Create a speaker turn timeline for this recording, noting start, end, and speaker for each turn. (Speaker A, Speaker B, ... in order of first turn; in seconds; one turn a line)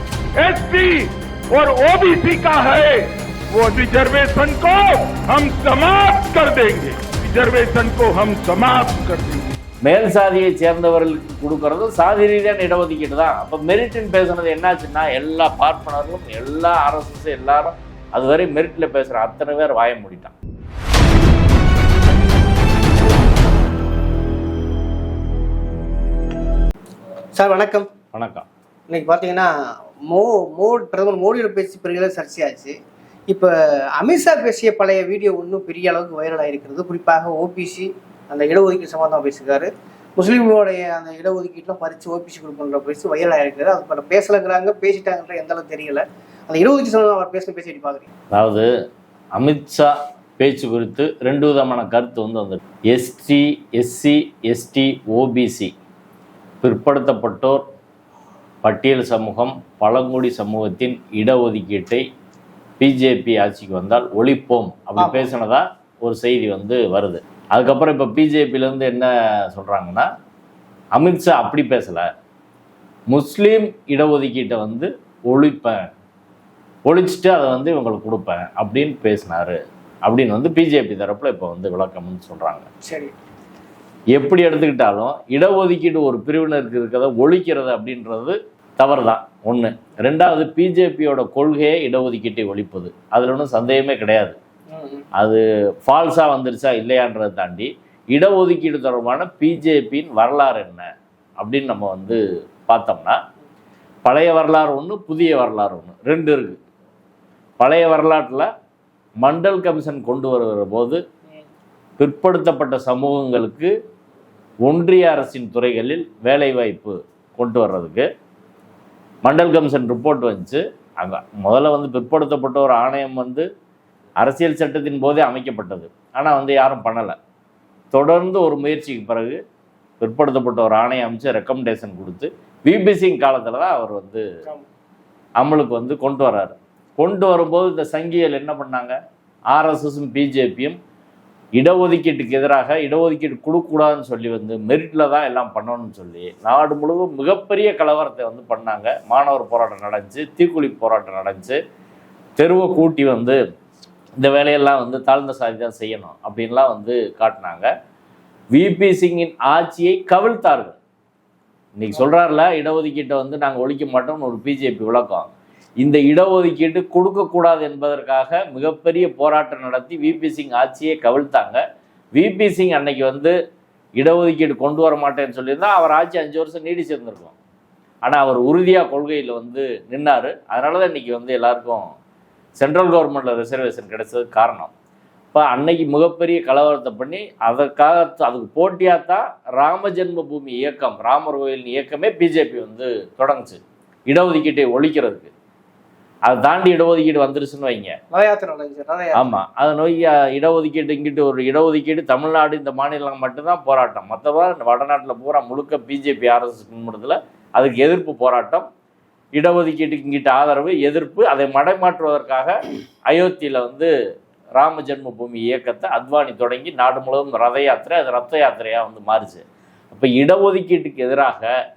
Speaker A: 0.4-9.6
Speaker B: 9.8-20.3
Speaker C: 27.4-27.9
Speaker B: 28.1-28.5
Speaker C: 28.9-29.5
Speaker C: 30.1-32.7
Speaker C: 33.3-48.1
Speaker B: 48.3-48.7
Speaker B: 49.4-55.7
Speaker B: 56.6-57.6
Speaker B: 58.6-62.0
Speaker B: 62.8-70.1
Speaker C: 65.0-65.3
Speaker B: 71.0-72.0
Speaker B: 73.1-75.8
Speaker B: 76.9-82.7
Speaker C: 82.8-83.1
Speaker B: 84.1-94.4
Speaker C: 94.7-95.0
Speaker B: 95.2-100.8
Speaker B: 101.4-103.2
Speaker B: 104.0-106.6
Speaker B: 107.6-108.5
Speaker B: 109.2-111.0
Speaker B: 112.0-113.7
Speaker B: 114.7-118.0
Speaker B: 119.2-123.5
Speaker B: 124.2-127.2
Speaker B: 127.9-129.4
Speaker B: 130.0-134.2
Speaker B: 135.4-138.9
Speaker B: 139.5-140.8
Speaker B: 141.6-151.6
Speaker B: 152.4-153.4
Speaker B: 154.2-157.7
Speaker B: 158.5-160.8
Speaker B: 161.8-165.3
Speaker B: 165.8-171.6
Speaker B: 172.2-173.3
Speaker B: 174.0-177.4
Speaker B: 178.1-181.8
Speaker B: 182.6-184.7
Speaker B: 185.3-195.3
Speaker B: 196.3-197.9
Speaker C: 198.1-199.3
Speaker B: 199.2-208.7
Speaker B: 209.4-212.5
Speaker B: 213.1-213.9
Speaker B: 214.6-221.5